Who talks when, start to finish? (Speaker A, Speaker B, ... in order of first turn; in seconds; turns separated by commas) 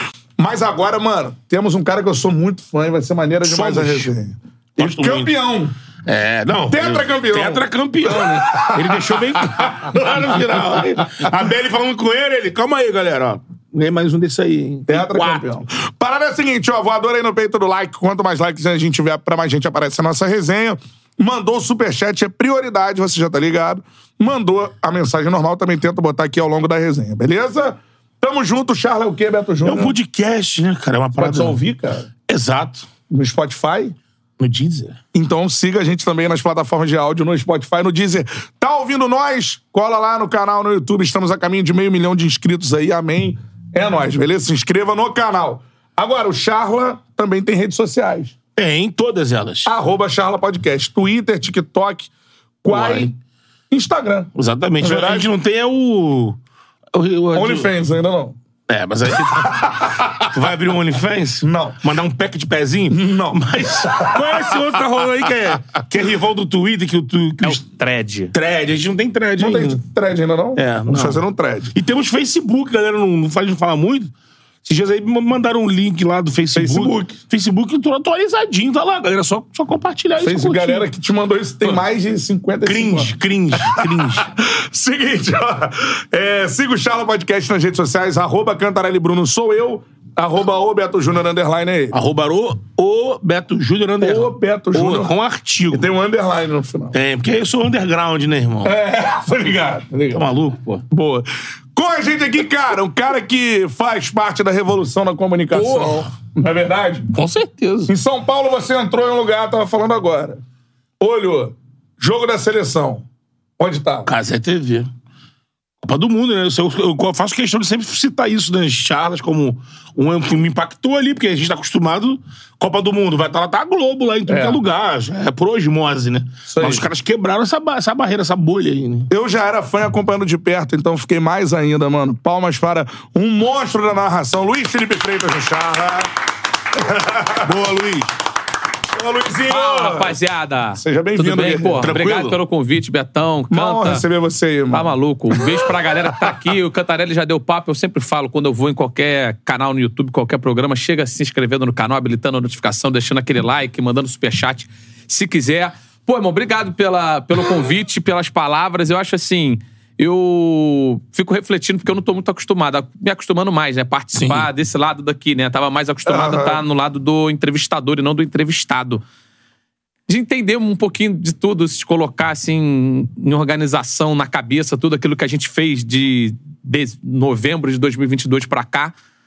Speaker A: 0.4-5.7, Speaker B: 3.4-4.1, Speaker B: 4.8-5.3, Speaker B: 6.0-15.5, Speaker A: 6.7-11.3, Speaker A: 14.9-29.9, Speaker B: 29.6-31.6, Speaker A: 31.2-32.1, Speaker B: 32.3-32.9, Speaker A: 33.1-33.9, Speaker B: 34.4-35.0, Speaker A: 35.1-48.4, Speaker B: 48.5-49.7, Speaker A: 49.6-52.1, Speaker A: 52.6-53.1, Speaker B: 52.7-53.1, Speaker A: 53.7-54.3, Speaker B: 54.3-56.4, Speaker A: 54.8-55.3, Speaker B: 56.9-57.7, Speaker A: 57.3-58.4, Speaker B: 58.7-59.6, Speaker A: 59.3-60.3, Speaker B: 60.3-67.6, Speaker A: 61.4-61.8, Speaker A: 62.9-64.8, Speaker C: 67.4-68.3, Speaker B: 68.3-69.8, Speaker A: 69.4-71.7, Speaker B: 70.5-71.2, Speaker B: 71.7-74.1, Speaker B: 74.6-80.8, Speaker A: 76.5-77.2, Speaker A: 80.2-92.0, Speaker B: 82.6-84.2, Speaker B: 91.9-95.9, Speaker A: 94.0-95.1, Speaker A: 95.7-96.9, Speaker B: 96.9-98.7, Speaker A: 98.6-100.2, Speaker B: 100.1-100.8, Speaker A: 100.9-107.1, Speaker B: 105.5-106.1, Speaker B: 107.1-107.9, Speaker A: 107.9-110.4, Speaker A: 111.0-113.0, Speaker A: 113.6-114.1, Speaker B: 114.0-114.9, Speaker B: 115.8-129.1, Speaker A: 124.3-124.6, Speaker A: 126.5-126.8, Speaker A: 129.1-136.1, Speaker A: 136.7-137.5, Speaker B: 137.4-138.1, Speaker A: 138.9-140.2, Speaker C: 139.5-144.0, Speaker A: 140.8-141.9, Speaker B: 141.8-142.4, Speaker A: 143.5-146.3, Speaker C: 144.7-169.0, Speaker B: 164.1-164.5, Speaker A: 166.1-166.6, Speaker C: 170.1-178.9